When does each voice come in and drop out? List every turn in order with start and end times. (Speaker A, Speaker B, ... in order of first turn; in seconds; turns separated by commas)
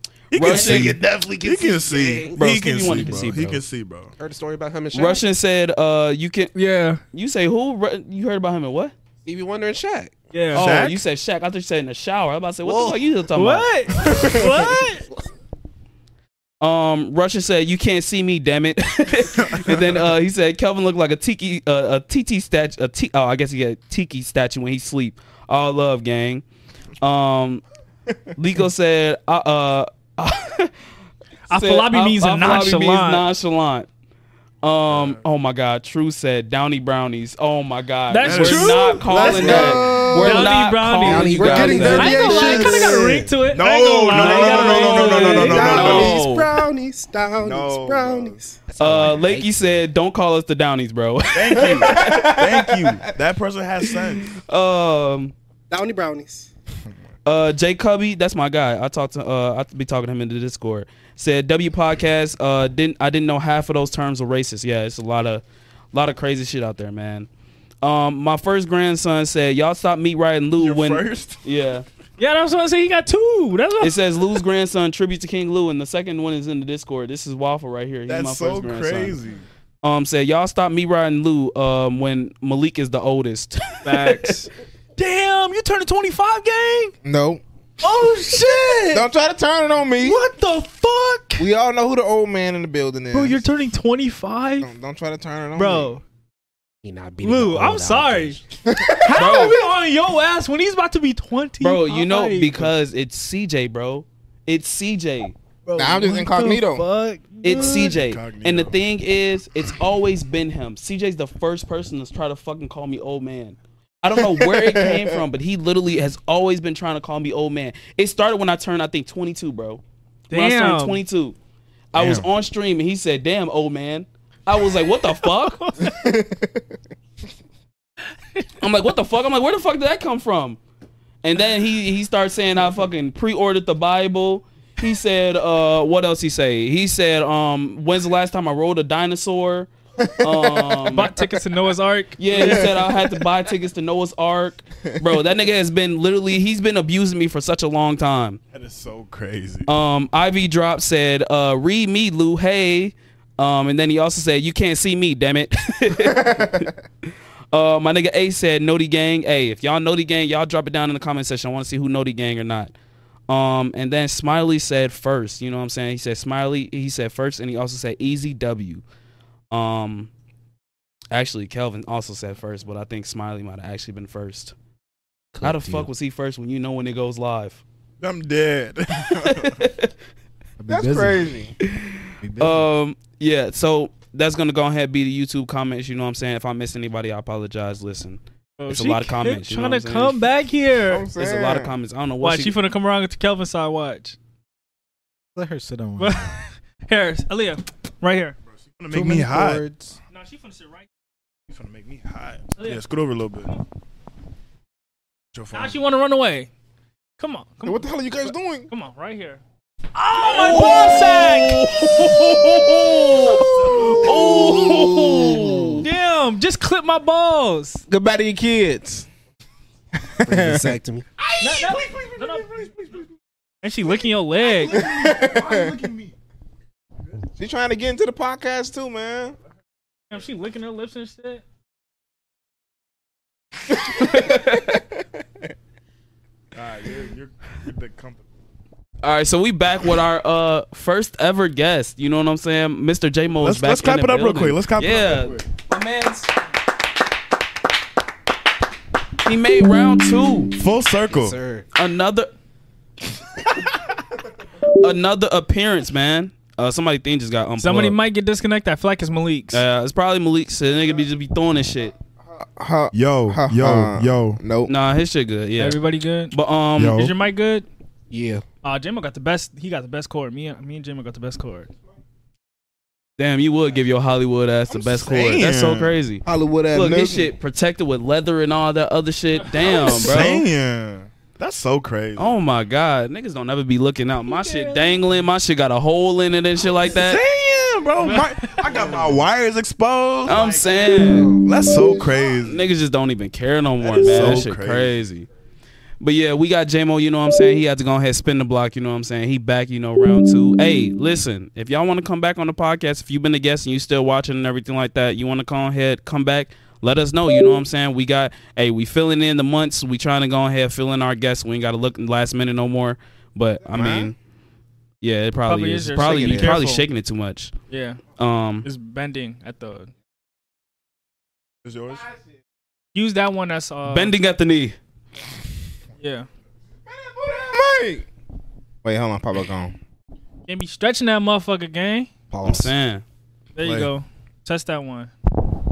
Speaker A: 0.3-4.1, Speaker B: 0.3-1.0, Speaker C: 0.4-3.3, Speaker B: 2.3-3.6, Speaker C: 4.2-5.2, Speaker B: 4.9-6.5, Speaker D: 6.5-7.0, Speaker B: 7.1-8.9, Speaker C: 9.2-10.2, Speaker D: 10.3-10.7, Speaker A: 10.5-11.0, Speaker B: 10.5-13.7, Speaker C: 12.6-13.0, Speaker D: 13.3-15.1, Speaker C: 14.1-14.9, Speaker B: 16.6-26.4, Speaker A: 19.4-20.0, Speaker B: 27.0-27.6, Speaker B: 28.4-30.7, Speaker D: 31.5-33.2, Speaker B: 31.5-33.9, Speaker B: 34.6-42.6, Speaker A: 34.9-35.2, Speaker D: 38.1-45.9, Speaker A: 38.2-39.2, Speaker E: 39.1-40.5, Speaker C: 39.2-40.2, Speaker C: 41.0-43.3, Speaker E: 41.4-43.3, Speaker A: 43.4-46.2, Speaker B: 44.1-46.5, Speaker E: 45.1-48.6, Speaker A: 47.4-48.3, Speaker C: 48.7-49.7, Speaker B: 48.8-53.0, Speaker A: 51.3-54.3, Speaker F: 51.8-52.6, Speaker B: 54.3-55.3, Speaker E: 55.7-56.5, Speaker B: 57.2-67.3, Speaker B: 67.8-71.8, Speaker A: 70.6-71.5, Speaker D: 72.2-74.0, Speaker B: 73.8-79.2, Speaker A: 78.1-79.4, Speaker B: 79.8-84.4, Speaker D: 83.8-86.9, Speaker F: 87.0-87.4, Speaker D: 87.8-89.1, Speaker F: 88.8-90.2, Speaker D: 90.0-91.5, Speaker F: 91.4-93.5, Speaker D: 93.1-94.7, Speaker F: 94.6-95.9, Speaker D: 95.5-96.0, Speaker C: 96.8-98.5, Speaker D: 97.2-98.4, Speaker F: 98.7-99.3, Speaker D: 99.0-102.7, Speaker B: 99.1-99.6, Speaker B: 101.6-105.3, Speaker D: 105.7-107.9, Speaker F: 105.8-106.8, Speaker B: 107.4-121.3, Speaker A: 107.6-108.8, Speaker F: 114.1-115.2, Speaker D: 120.3-121.0, Speaker B: 121.9-125.6, Speaker A: 121.9-122.3, Speaker D: 124.9-125.9, Speaker F: 125.9-126.6, Speaker B: 128.6-130.6, Speaker B: 131.2-141.1, Speaker F: 140.2-140.8, Speaker D: 140.9-142.8, Speaker B: 142.2-148.4, Speaker F: 142.3-142.9, Speaker A: 148.5-149.7, Speaker B: 149.7-156.7, Speaker F: 156.0-156.7, Speaker B: 157.5-162.7, Speaker B: 163.3-168.8, Speaker B: 169.5-170.1, Speaker B: 171.1-174.5, Speaker C: 175.3-175.9, Speaker B: 175.4-177.6, Speaker A: 178.0-179.6, Speaker B: 179.2-179.9, Speaker G: 180.6-181.4, Speaker F: 180.7-181.5, Speaker B: 181.6-190.2, Speaker G: 182.2-182.7, Speaker D: 188.6-191.1, Speaker F: 190.9-191.7, Speaker B: 191.2-192.5, Speaker D: 192.2-194.2, Speaker G: 195.3-196.4, Speaker D: 196.0-198.4, Speaker A: 198.7-199.7, Speaker G: 198.9-200.0, Speaker D: 200.1-200.9, Speaker A: 201.5-203.5, Speaker A: 205.3-205.8, Speaker D: 205.5-206.5, Speaker D: 207.2-207.9, Speaker F: 207.6-208.7, Speaker D: 208.7-209.4, Speaker D: 209.9-212.3, Speaker A: 210.2-211.4, Speaker B: 210.3-215.8, Speaker F: 213.3-215.4, Speaker D: 214.6-215.2, Speaker C: 215.2-215.9, Speaker D: 215.8-217.8, Speaker F: 217.9-219.1, Speaker F: 220.2-220.8, Speaker C: 220.2-221.0, Speaker A: 221.2-223.1, Speaker D: 221.4-222.5, Speaker D: 223.6-224.8, Speaker A: 224.4-226.1, Speaker F: 224.7-225.8, Speaker F: 227.4-229.4, Speaker D: 230.1-231.4, Speaker B: 233.9-234.8, Speaker A: 236.5-238.2, Speaker B: 239.0-246.3, Speaker A: 243.4-245.4, Speaker B: 249.2-250.5, Speaker A: 250.5-251.4, Speaker C: 251.1-251.7, Speaker B: 251.7-252.3, Speaker B: 254.8-258.0, Speaker D: 257.6-259.6, Speaker B: 259.5-261.9, Speaker F: 262.4-264.7, Speaker A: 262.9-264.4, Speaker B: 264.7-265.8, Speaker D: 265.6-267.6, Speaker B: 266.3-267.0, Speaker A: 266.8-267.1, Speaker C: 268.1-268.4, Speaker D: 268.6-271.7, Speaker B: 273.2-280.4, Speaker A: 274.8-276.0, Speaker F: 276.2-277.3, Speaker D: 279.6-280.2, Speaker A: 279.7-282.3, Speaker B: 282.2-287.2, Speaker D: 284.2-285.0, Speaker A: 286.9-292.6, Speaker B: 290.2-291.3, Speaker C: 290.8-292.2, Speaker B: 292.3-295.3, Speaker A: 293.8-295.0, Speaker B: 296.0-314.1, Speaker F: 313.7-314.1, Speaker B: 315.0-317.5, Speaker D: 315.5-316.8, Speaker C: 316.0-316.5, Speaker D: 317.7-318.0, Speaker B: 318.2-318.7, Speaker D: 318.6-319.9, Speaker A: 321.6-322.1, Speaker D: 322.9-324.1, Speaker B: 323.9-324.8, Speaker D: 326.0-326.3, Speaker F: 327.2-328.0, Speaker F: 328.8-329.7, Speaker D: 330.5-332.1, Speaker C: 332.3-332.7, Speaker B: 332.4-333.0, Speaker D: 333.6-335.1, Speaker A: 333.6-333.9